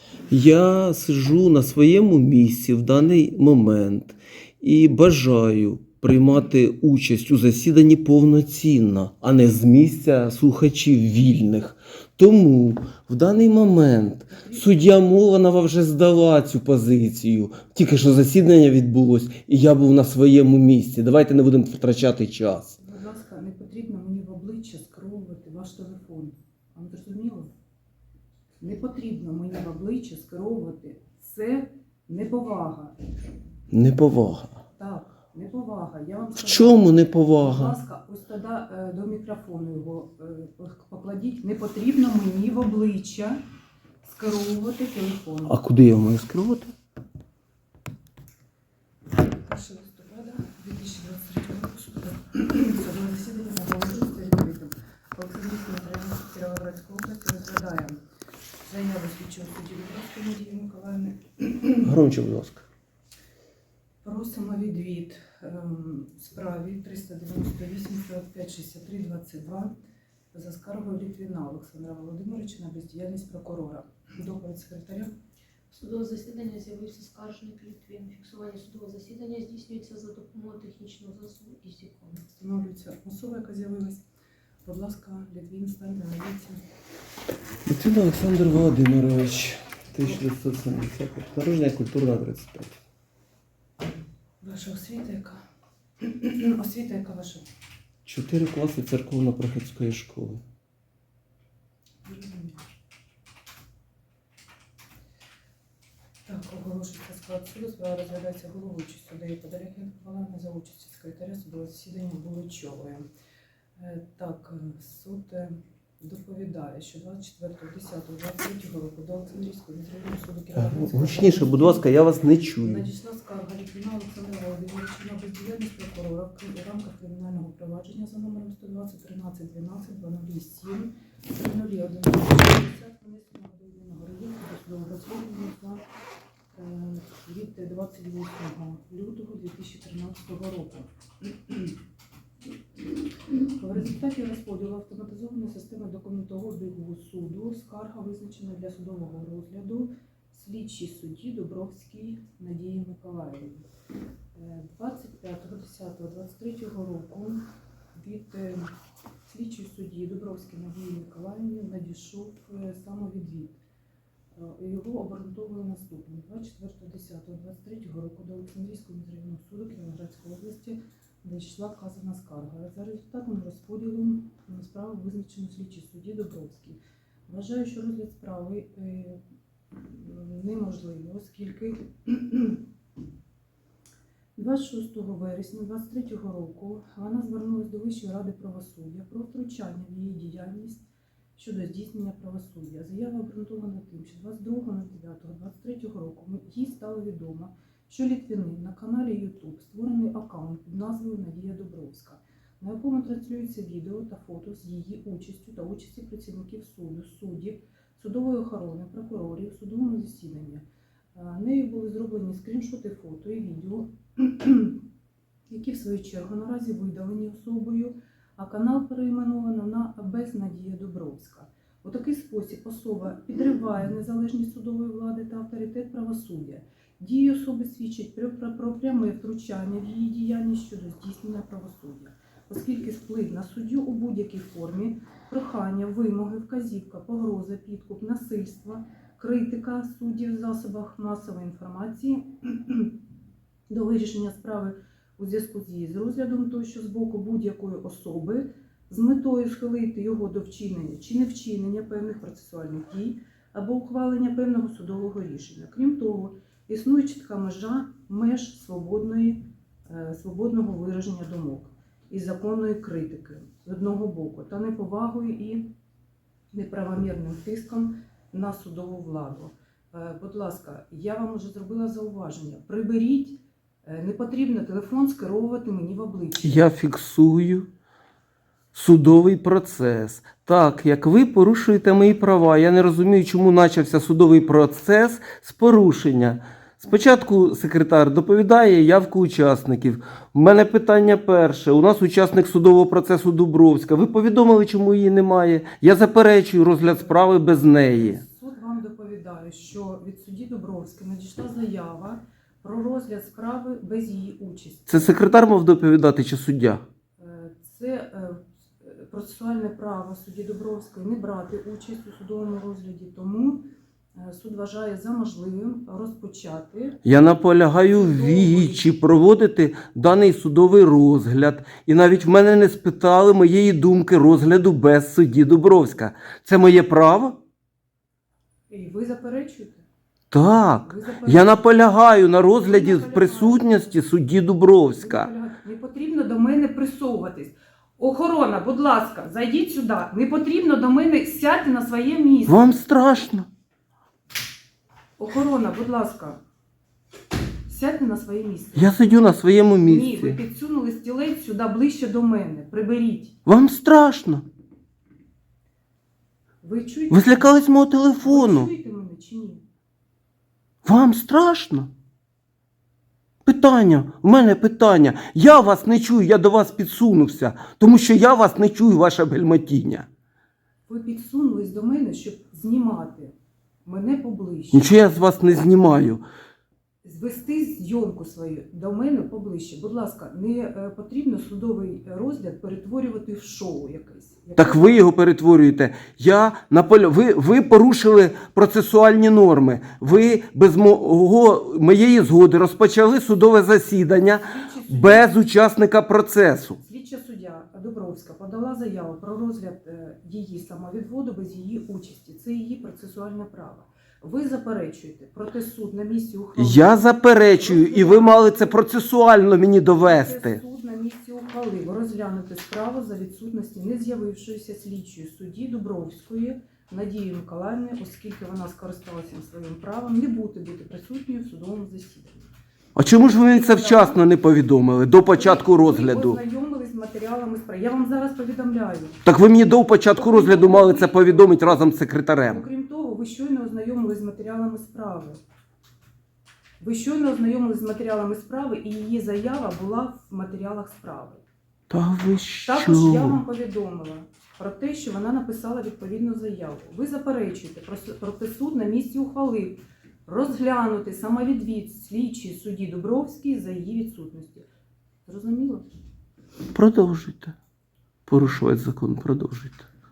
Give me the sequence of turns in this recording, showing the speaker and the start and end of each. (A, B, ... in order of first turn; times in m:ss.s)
0:00.3-0:22.7 A
0:14.3-0:14.7 B
0:22.8-0:27.5 B
0:28.6-0:32.9 B
0:33.7-0:34.6 A
0:34.8-0:43.4 B
0:36.4-0:37.8 A
0:44.0-0:45.6 B
0:45.5-0:46.7 A
0:49.3-0:58.0 B
0:58.7-1:01.9 B
1:01.8-1:02.6 A
1:04.0-1:09.7 B
1:10.3-1:15.1 B
1:15.7-1:22.2 C
1:22.3-1:24.0 B
1:24.6-1:26.6 B
1:27.6-1:32.8 A
1:34.4-1:35.4 B
1:36.0-1:37.4 B
1:38.0-1:40.4 A
1:42.0-1:42.6 B
1:46.2-1:53.0 B
1:53.8-2:01.8 B
2:00.5-2:02.9 A
2:02.6-2:15.8 B
2:16.5-2:20.9 B
2:21.4-2:21.7 B
2:23.6-2:33.6 B
2:34.3-2:38.7 B
2:39.2-2:43.6 B
2:44.3-2:59.2 B
2:59.7-3:02.6 B
3:04.4-3:10.8 B
3:11.4-3:30.6 B
3:31.1-3:34.8 B
3:35.5-4:02.9 B
4:03.7-4:25.7 B
4:26.5-4:36.7 B
4:36.4-4:37.7 A
4:38.7-4:58.2 A
4:57.9-5:05.1 B
5:04.9-5:06.8 A
5:07.2-5:13.6 B
5:14.2-5:17.0 B
5:17.0-5:27.4 A
5:17.9-5:18.8 B
5:28.7-5:29.8 B
5:30.3-5:35.3 A
5:30.8-5:31.6 B
5:32.6-5:34.0 B
5:34.9-5:42.8 B
5:42.5-5:43.5 A
5:45.2-5:46.4 B
5:47.6-5:48.9 B
5:48.7-5:50.4 A
5:49.8-5:53.4 B
5:53.4-5:54.4 A
5:56.6-5:57.5 B
5:57.1-5:58.7 A
5:58.2-5:59.6 B
6:00.8-6:01.9 A
6:03.4-6:10.1 A
6:10.9-6:13.3 B
6:13.8-6:14.9 B
6:14.7-6:16.2 A
6:17.0-6:25.0 B
6:24.6-6:36.8 A
6:34.4-6:35.3 B
6:36.8-6:46.9 B
6:46.6-6:50.6 A
6:47.6-6:48.7 B
6:50.0-7:02.5 B
7:03.0-7:06.4 A
7:03.3-7:04.2 B
7:05.2-7:09.2 B
7:09.2-7:12.6 A
7:10.2-7:11.8 B
7:12.5-7:15.4 B
7:16.8-7:21.4 B
7:21.9-7:23.4 A
7:22.7-7:34.6 B
7:35.2-7:35.8 B
7:36.7-7:37.5 A
7:38.3-7:39.8 A